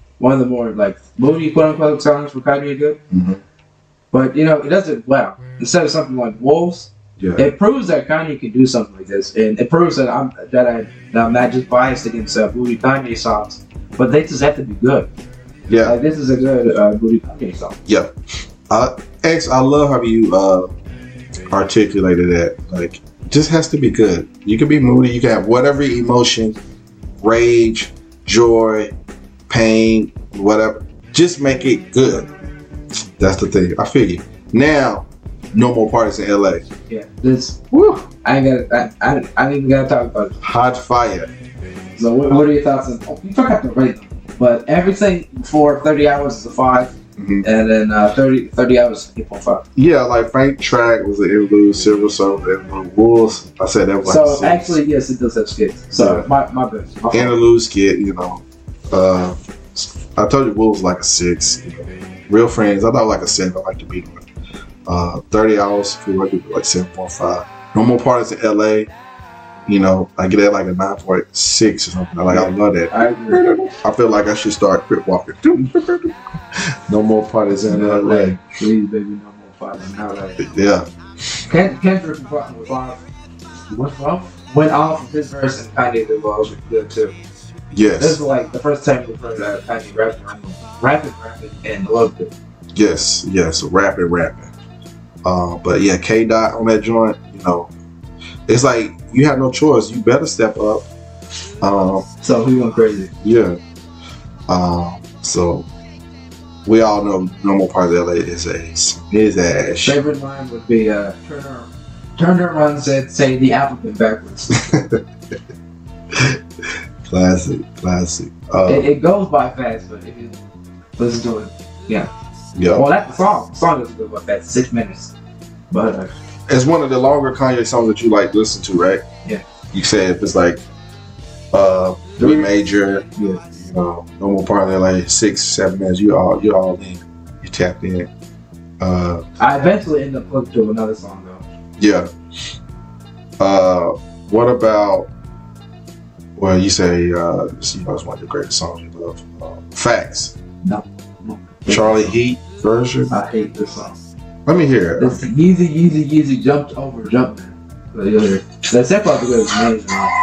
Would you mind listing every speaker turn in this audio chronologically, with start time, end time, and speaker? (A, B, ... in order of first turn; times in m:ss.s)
0:00.2-0:03.0 A
0:03.1-0:03.4 B
0:04.1-0:15.1 A
0:07.2-0:07.4 B
0:15.7-0:16.0 B
0:15.8-0:17.8 A
0:17.8-0:18.1 B
0:18.7-0:20.7 B
0:21.5-0:26.6 B
0:27.2-0:28.9 B
0:29.5-0:32.3 B
0:33.2-0:36.6 B
0:36.9-0:37.6 A
0:37.7-0:38.1 B
0:38.2-0:40.4 A
0:40.4-0:41.3 B
0:42.0-0:49.6 A
0:47.2-0:47.4 B
0:49.7-0:54.8 B
0:54.0-0:57.4 A
0:55.9-0:56.2 B
0:57.1-1:04.2 B
1:04.9-1:08.9 B
1:09.6-1:16.2 B
1:12.3-1:13.4 A
1:16.8-1:18.4 B
1:17.6-1:20.4 A
1:20.4-1:21.4 B
1:21.5-1:23.0 A
1:23.7-1:27.1 A
1:27.7-1:28.2 B
1:28.0-1:32.3 A
1:32.7-1:34.5 B
1:35.2-1:37.7 B
1:38.5-1:40.9 B
1:41.6-1:42.1 B
1:42.2-1:43.1 A
1:43.2-1:43.6 B
1:44.5-1:45.7 B
1:46.6-1:50.0 B
1:49.8-1:54.8 A
1:54.5-1:55.0 B
1:56.1-1:56.4 B
1:57.1-1:58.9 B
1:58.7-2:00.4 A
2:01.0-2:02.1 A
2:02.5-2:02.8 B
2:02.7-2:05.1 A
2:05.7-2:06.1 A
2:06.5-2:09.0 B
2:09.7-2:10.6 B
2:11.5-2:18.1 B
2:12.2-2:12.5 A
2:13.2-2:13.4 A
2:18.8-2:19.2 B
2:19.4-2:21.4 A
2:21.8-2:22.1 B
2:23.4-2:25.1 B
2:26.4-2:30.3 B
2:30.6-2:32.2 A
2:31.7-2:33.1 B
2:33.1-2:34.0 A
2:34.4-2:35.2 B
2:35.0-2:40.1 A